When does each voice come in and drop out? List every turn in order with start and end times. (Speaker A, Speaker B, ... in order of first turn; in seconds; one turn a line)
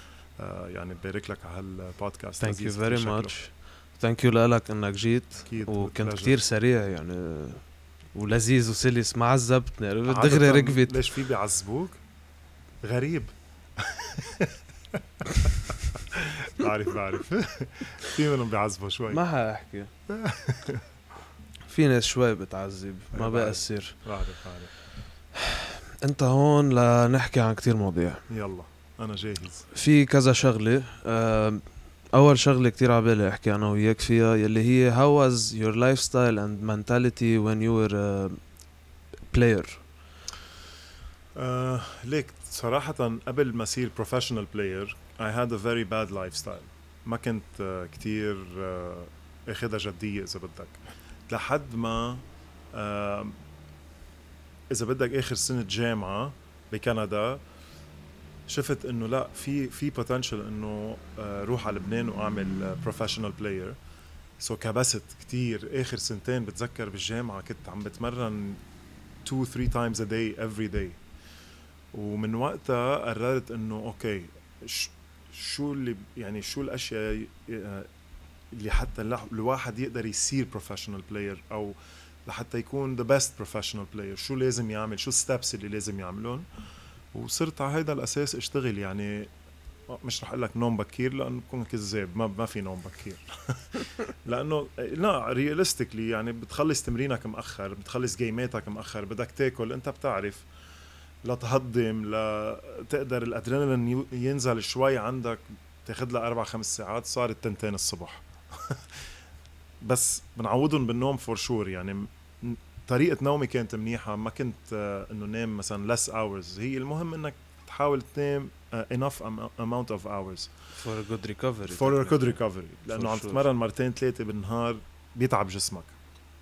Speaker A: 0.4-3.3
Speaker B: 2.4-7.6
Speaker A: 5.4-6.4
Speaker B: 8.1-11.0
Speaker A: 10.1-12.0
Speaker A: 12.8-19.2
Speaker B: 19.1-19.9
Speaker A: 20.1-20.8
Speaker B: 21.7-24.0
Speaker A: 23.1-24.7
Speaker B: 25.3-28.2
Speaker A: 28.3-29.6
Speaker B: 29.7-38.4
Speaker B: 39.3-39.8
Speaker A: 41.3-53.4
Speaker A: 54.7-57.4
Speaker A: 58.5-63.8
Speaker A: 64.4-68.6
Speaker A: 69.2-71.0
Speaker A: 71.9-77.9
Speaker A: 78.5-86.4
Speaker A: 87.1-89.3
Speaker A: 89.9-100.5
Speaker A: 101.2-109.0
Speaker A: 109.8-120.5
Speaker B: 120.8-122.3
Speaker A: 121.7-125.9
Speaker B: 122.9-123.5